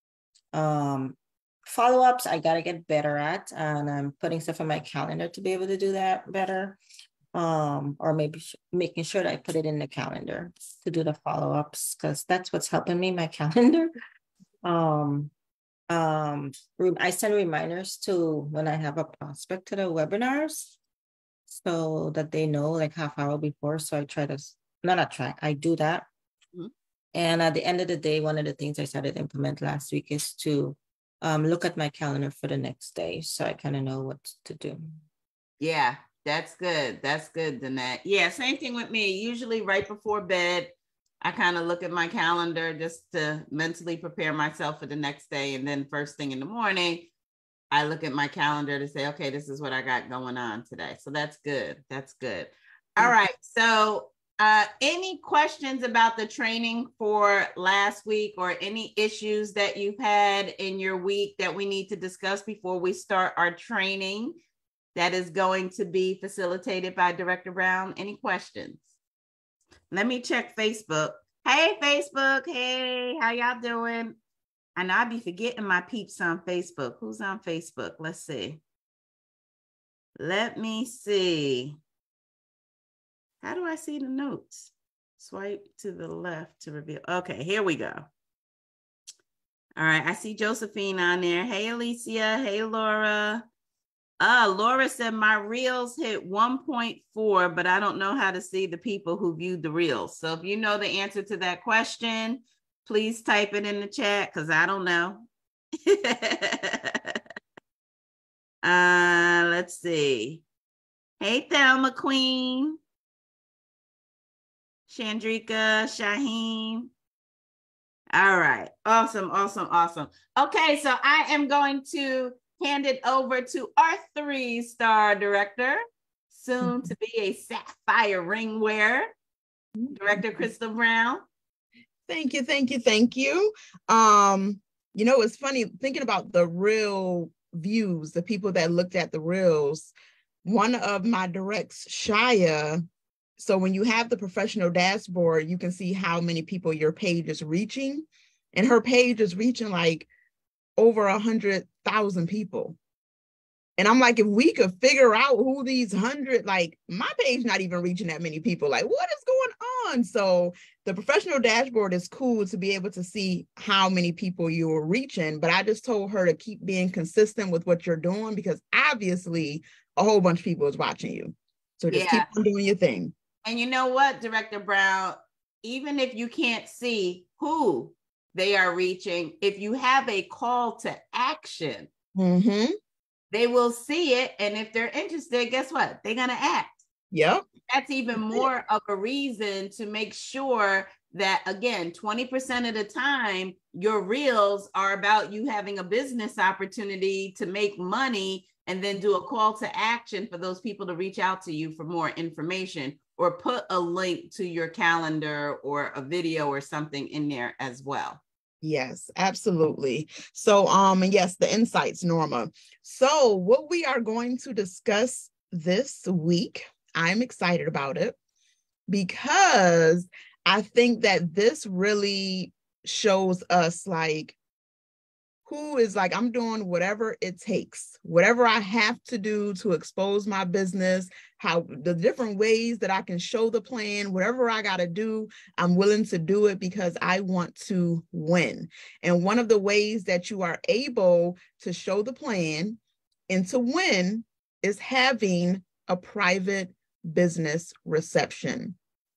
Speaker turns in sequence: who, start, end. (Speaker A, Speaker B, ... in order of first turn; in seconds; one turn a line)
Speaker A: 0.5-6.8
Speaker A: 7.3-13.9
Speaker A: 14.6-15.3
Speaker A: 15.9-20.8
Speaker A: 21.5-26.1
Speaker A: 27.1-34.8
Speaker B: 35.6-47.1
Speaker B: 47.7-64.4
Speaker B: 65.0-68.9
Speaker B: 69.9-74.2
Speaker B: 74.8-78.6
Speaker B: 80.2-81.8
Speaker B: 83.4-88.1
Speaker B: 89.8-93.4
Speaker B: 94.2-105.3
Speaker B: 105.8-107.2
Speaker B: 108.6-110.4
Speaker B: 111.2-112.8
Speaker B: 114.9-116.9
Speaker B: 118.1-129.1
Speaker C: 126.6-126.9
Speaker C: 129.8-130.4
Speaker B: 129.9-131.2
Speaker C: 132.1-139.9
Speaker C: 140.4-142.8
Speaker C: 143.4-150.1
Speaker C: 150.8-152.8
Speaker C: 153.8-173.1
Speaker B: 171.9-172.3
Speaker B: 173.4-181.9
Speaker C: 182.2-182.8
Speaker B: 183.3-186.8
Speaker C: 187.1-187.5
Speaker B: 187.7-208.2
Speaker C: 208.6-218.2
Speaker C: 218.9-224.3
Speaker C: 225.5-242.8
Speaker C: 243.3-248.8